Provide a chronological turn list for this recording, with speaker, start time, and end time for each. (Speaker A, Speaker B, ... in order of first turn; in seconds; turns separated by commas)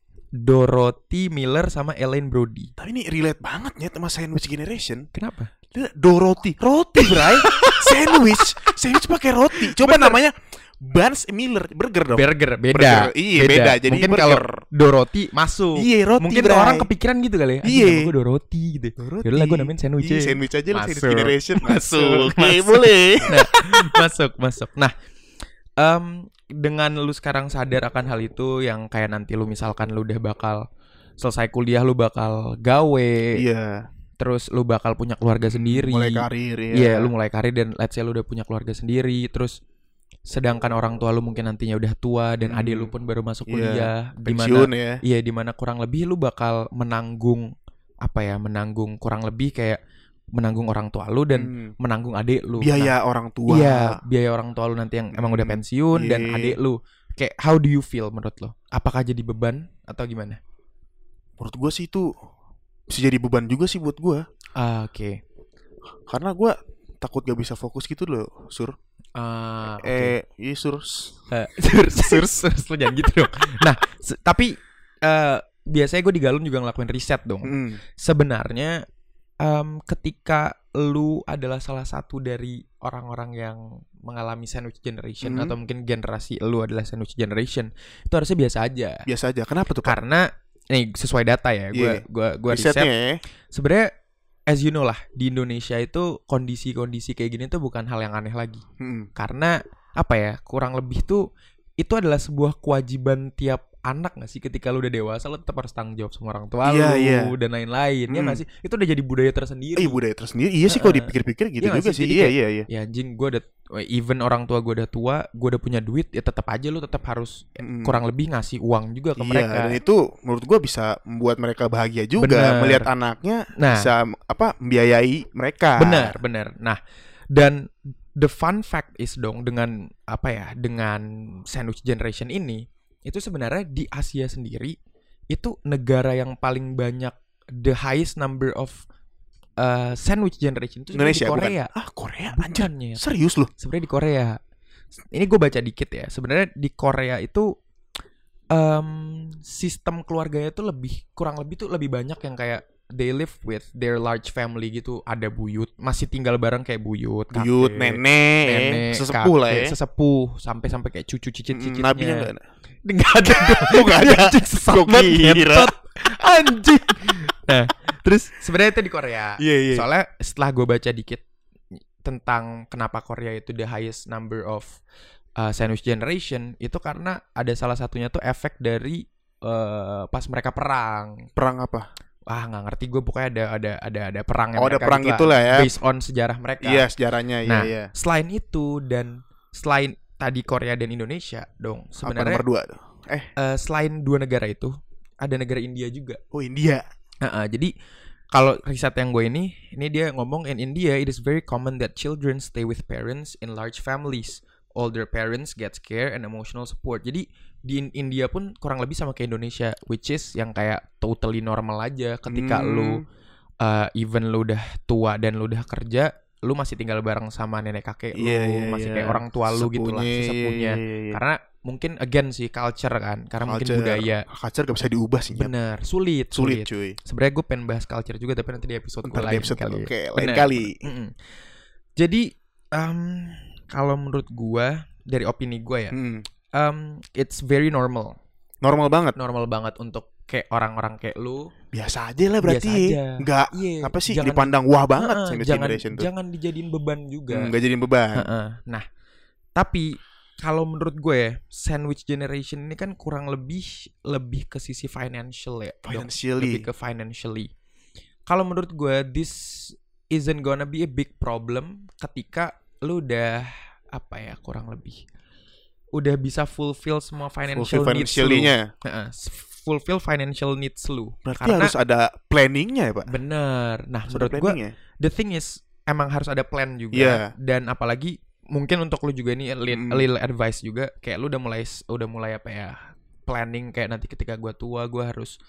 Speaker A: 0.3-2.7, Speaker B: 2.8-5.1, Speaker A: 5.1-5.5, Speaker B: 5.7-14.6, Speaker A: 7.0-8.7, Speaker A: 9.6-10.2, Speaker A: 12.1-24.9, Speaker B: 15.8-16.9, Speaker B: 17.6-18.1, Speaker B: 19.0-23.9, Speaker A: 25.8-30.6, Speaker A: 31.2-33.4, Speaker B: 33.4-33.9, Speaker A: 34.2-39.6, Speaker B: 35.5-37.1, Speaker A: 40.3-47.5, Speaker B: 42.4-42.9, Speaker B: 43.5-45.0, Speaker A: 48.0-49.8, Speaker A: 50.4-52.9, Speaker B: 51.4-51.7, Speaker B: 52.6-54.0, Speaker A: 53.5-60.4, Speaker B: 55.1-56.6, Speaker B: 61.4-62.1, Speaker B: 62.9-64.2, Speaker A: 64.6-65.2, Speaker B: 66.1-68.8, Speaker A: 69.2-70.2, Speaker B: 69.8-71.2, Speaker A: 71.3-78.8, Speaker B: 72.0-72.4, Speaker B: 77.5-77.8, Speaker A: 79.4-89.0, Speaker B: 85.2-85.5, Speaker B: 89.1-90.0, Speaker A: 89.8-92.9, Speaker B: 91.7-93.2, Speaker A: 93.5-93.9, Speaker A: 94.5-98.6, Speaker B: 98.8-99.1, Speaker A: 99.2-101.2, Speaker A: 101.8-110.0, Speaker B: 106.6-107.3, Speaker B: 108.1-108.4, Speaker B: 109.8-112.7, Speaker A: 110.7-119.8, Speaker B: 117.6-118.0, Speaker B: 119.2-126.2, Speaker A: 122.2-122.9, Speaker A: 123.6-123.9, Speaker A: 125.8-126.8, Speaker A: 127.3-134.8, Speaker A: 135.3-138.8, Speaker A: 139.6-141.7, Speaker B: 140.9-143.5, Speaker A: 142.3-143.0, Speaker A: 143.6-144.4, Speaker A: 145.1-147.5, Speaker A: 148.5-162.3, Speaker B: 157.3-159.7, Speaker B: 161.5-162.4, Speaker A: 162.8-171.2, Speaker B: 163.3-165.7, Speaker B: 169.4-169.9, Speaker A: 172.0-174.8, Speaker A: 175.4-181.3, Speaker B: 181.4-181.9, Speaker A: 182.3-186.9, Speaker B: 184.6-185.7, Speaker B: 186.6-187.9, Speaker A: 187.5-192.4, Speaker B: 192.0-193.3, Speaker A: 193.4-196.2, Speaker B: 196.3-196.8, Speaker A: 197.2-197.7, Speaker A: 198.3-213.0, Speaker B: 212.3-213.0, Speaker A: 213.6-224.2, Speaker B: 218.2-221.2, Speaker B: 223.4-225.5, Speaker A: 225.3-231.2, Speaker B: 226.3-227.0, Speaker B: 229.1-230.8, Speaker A: 232.0-236.0, Speaker B: 235.9-236.2, Speaker A: 236.6-238.2, Speaker B: 238.6-239.2, Speaker A: 239.2-241.5, Speaker B: 241.7-246.1, Speaker A: 242.4-247.5, Speaker B: 247.3-248.3, Speaker A: 248.2-248.8, Speaker A: 249.6-257.5, Speaker B: 255.8-256.6, Speaker A: 258.3-265.0, Speaker A: 265.9-271.7, Speaker B: 267.5-268.7, Speaker B: 271.2-273.1, Speaker A: 273.1-285.3, Speaker B: 274.1-274.7, Speaker B: 276.9-277.3, Speaker B: 279.7-280.0